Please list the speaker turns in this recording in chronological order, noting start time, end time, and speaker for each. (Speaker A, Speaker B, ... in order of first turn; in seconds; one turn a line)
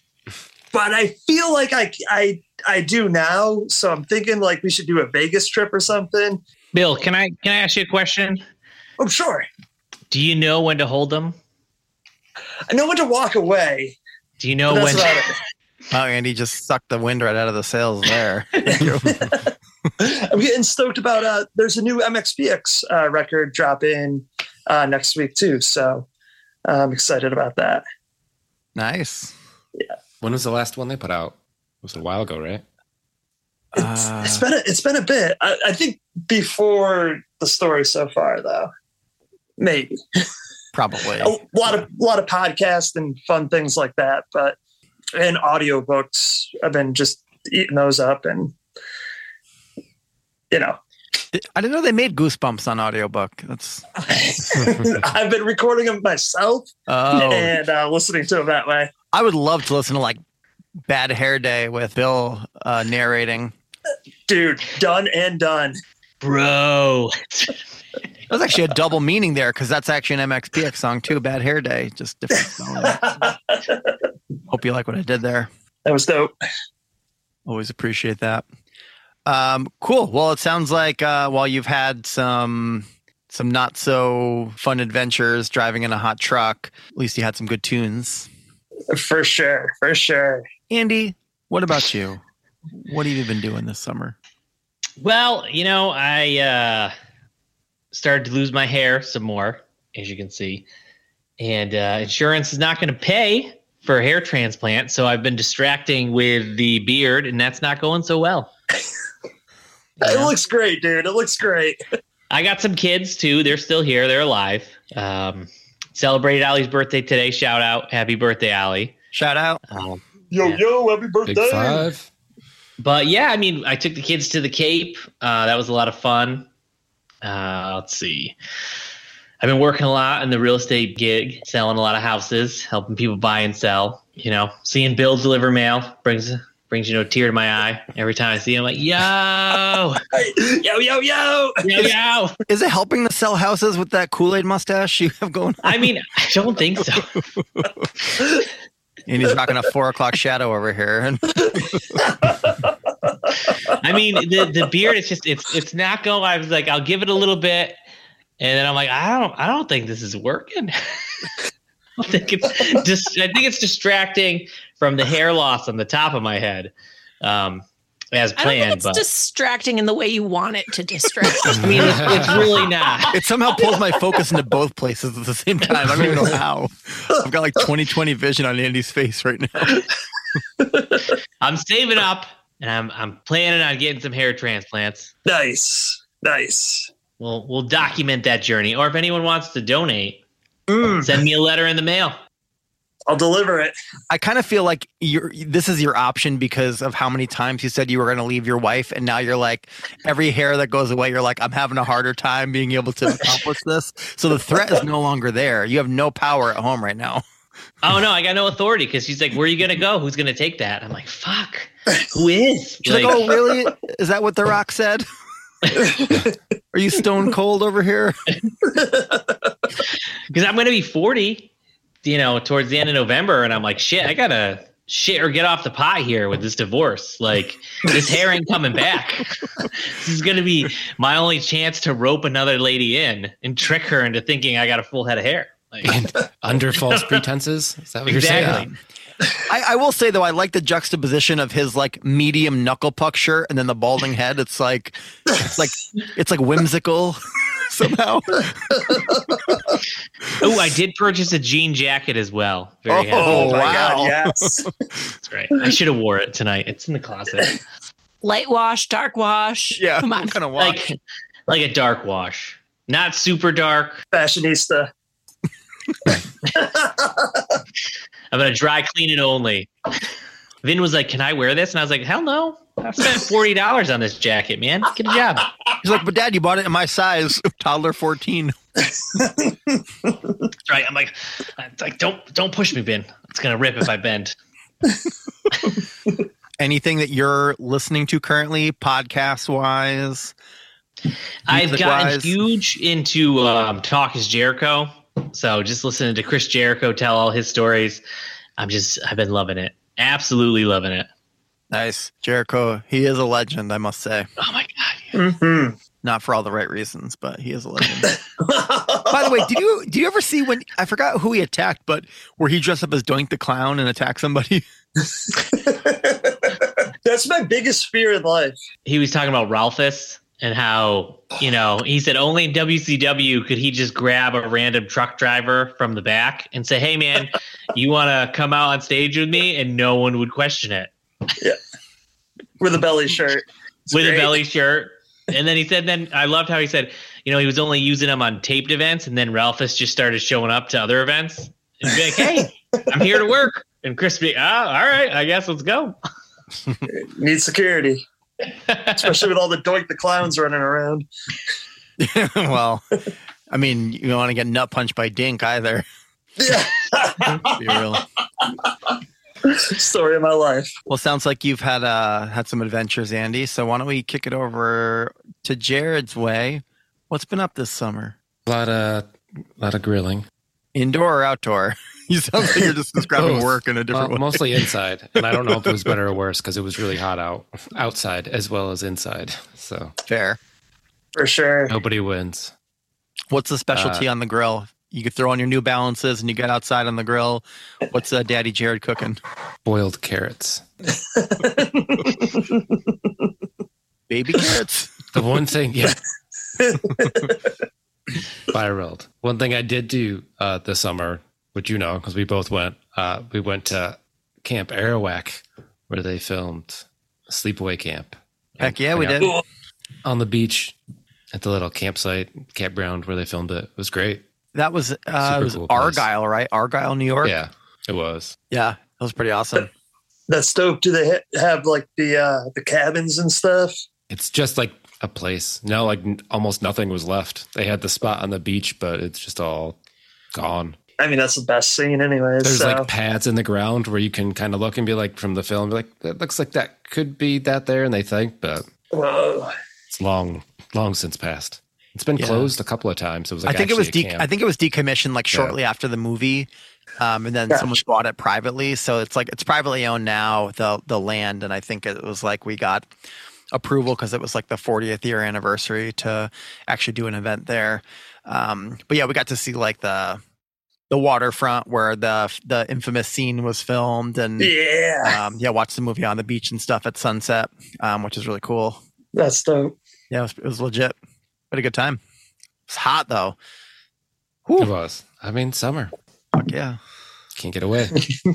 Speaker A: 0.7-6.4
Speaker B: 6.7-8.4
Speaker A: 9.0-9.5
Speaker B: 10.1-11.3
Speaker A: 12.7-14.0
Speaker B: 14.4-15.2
Speaker A: 14.7-15.3
Speaker C: 15.9-19.2
Speaker A: 18.6-26.1
Speaker A: 26.7-27.8
Speaker C: 28.8-29.3
Speaker D: 30.2-32.6
Speaker C: 33.7-34.5
Speaker A: 33.8-38.7
Speaker A: 39.6-40.2
Speaker C: 40.7-41.3
Speaker A: 41.2-44.5
Speaker A: 45.2-48.5
Speaker A: 50.5-50.8
Speaker C: 51.3-53.9
Speaker A: 54.0-58.9
Speaker C: 56.9-57.5
Speaker C: 59.1-60.2
Speaker C: 60.9-63.5
Speaker A: 64.3-65.8
Speaker B: 66.2-67.5
Speaker C: 68.3-73.3
Speaker A: 72.8-74.0
Speaker C: 74.5-75.5
Speaker A: 75.8-76.3
Speaker C: 77.5-78.5
Speaker C: 79.3-88.3
Speaker A: 88.9-90.5
Speaker C: 90.7-92.2
Speaker C: 92.8-94.2
Speaker B: 95.0-96.9
Speaker B: 97.9-100.7
Speaker B: 101.4-108.5
Speaker B: 110.0-110.3
Speaker A: 110.0-111.8
Speaker B: 112.3-118.9
Speaker C: 119.1-119.6
Speaker B: 119.7-120.6
Speaker A: 120.3-121.8
Speaker D: 121.2-122.1
Speaker B: 122.8-126.5
Speaker B: 127.2-128.3
Speaker B: 129.4-140.0
Speaker A: 140.1-141.8
Speaker B: 141.6-142.3
Speaker C: 142.5-145.9
Speaker B: 145.6-147.2
Speaker C: 147.4-147.9
Speaker C: 149.1-151.9
Speaker B: 153.7-157.8
Speaker B: 158.4-160.8
Speaker B: 162.0-169.0
Speaker E: 168.4-172.3
Speaker B: 171.5-173.2
Speaker D: 171.6-172.3
Speaker C: 173.1-179.8
Speaker D: 176.0-176.3
Speaker A: 180.6-181.0
Speaker B: 181.4-185.1
Speaker A: 185.3-186.9
Speaker B: 187.2-190.2
Speaker A: 190.7-191.1
Speaker B: 190.9-192.2
Speaker A: 193.1-193.7
Speaker C: 194.1-207.2
Speaker B: 207.8-213.4
Speaker C: 212.8-215.0
Speaker A: 215.7-216.3
Speaker C: 216.7-218.2
Speaker A: 218.6-219.5
Speaker B: 220.3-221.5
Speaker B: 222.0-236.0
Speaker D: 235.8-238.7
Speaker A: 236.9-237.2
Speaker B: 238.1-238.7
Speaker C: 238.3-238.7
Speaker C: 239.5-249.0
Speaker A: 245.3-245.6
Speaker A: 248.7-249.8
Speaker B: 250.4-253.6
Speaker C: 252.9-254.7
Speaker A: 253.2-254.7
Speaker B: 255.2-257.6
Speaker E: 258.2-260.4
Speaker C: 259.8-260.9
Speaker B: 260.6-261.0
Speaker B: 261.5-264.0
Speaker A: 264.1-264.9
Speaker A: 266.5-267.6
Speaker B: 268.3-269.7
Speaker B: 270.6-275.5
Speaker C: 275.8-278.5
Speaker A: 279.0-280.3
Speaker B: 280.7-284.3
Speaker C: 286.6-290.3
Speaker B: 291.5-298.0
Speaker C: 291.5-292.3
Speaker B: 298.6-301.1
Speaker C: 301.7-304.3
Speaker B: 304.4-305.2
Speaker A: 305.1-305.8
Speaker C: 306.0-308.1
Speaker A: 308.0-309.5
Speaker C: 309.1-314.6
Speaker A: 315.1-318.6
Speaker B: 318.9-330.9
Speaker A: 332.6-334.4
Speaker B: 333.9-346.0
Speaker A: 346.9-348.1
Speaker B: 348.7-349.0
Speaker A: 349.0-351.1
Speaker C: 352.0-352.8
Speaker C: 353.5-355.9
Speaker A: 356.4-360.7
Speaker C: 357.4-358.0
Speaker C: 360.9-368.2
Speaker D: 368.5-370.2
Speaker C: 370.8-374.6
Speaker D: 373.2-379.9
Speaker C: 375.5-375.9
Speaker C: 380.1-380.4
Speaker A: 381.1-381.8
Speaker D: 381.7-382.5
Speaker C: 383.3-389.2
Speaker D: 383.8-384.1
Speaker D: 389.6-390.6
Speaker A: 390.9-392.8
Speaker C: 394.1-395.0
Speaker D: 395.1-396.0
Speaker A: 396.6-397.4
Speaker D: 398.5-409.4
Speaker C: 408.6-409.4
Speaker D: 410.0-410.8
Speaker D: 411.3-414.2
Speaker C: 414.5-417.3
Speaker D: 415.2-416.0
Speaker D: 417.2-418.4
Speaker C: 418.5-419.7
Speaker A: 420.3-423.8
Speaker D: 424.1-429.8
Speaker D: 430.4-430.8
Speaker A: 431.0-432.9
Speaker D: 432.4-438.6
Speaker A: 438.9-439.6
Speaker D: 439.9-444.3
Speaker C: 442.2-442.5
Speaker C: 443.4-452.9
Speaker C: 453.5-460.2
Speaker C: 460.9-468.8
Speaker A: 464.4-465.2
Speaker A: 469.1-469.8
Speaker C: 470.1-471.0
Speaker C: 471.5-472.0
Speaker C: 472.7-473.4
Speaker C: 474.5-474.7
Speaker D: 474.6-475.9
Speaker C: 476.3-476.8
Speaker D: 477.4-478.0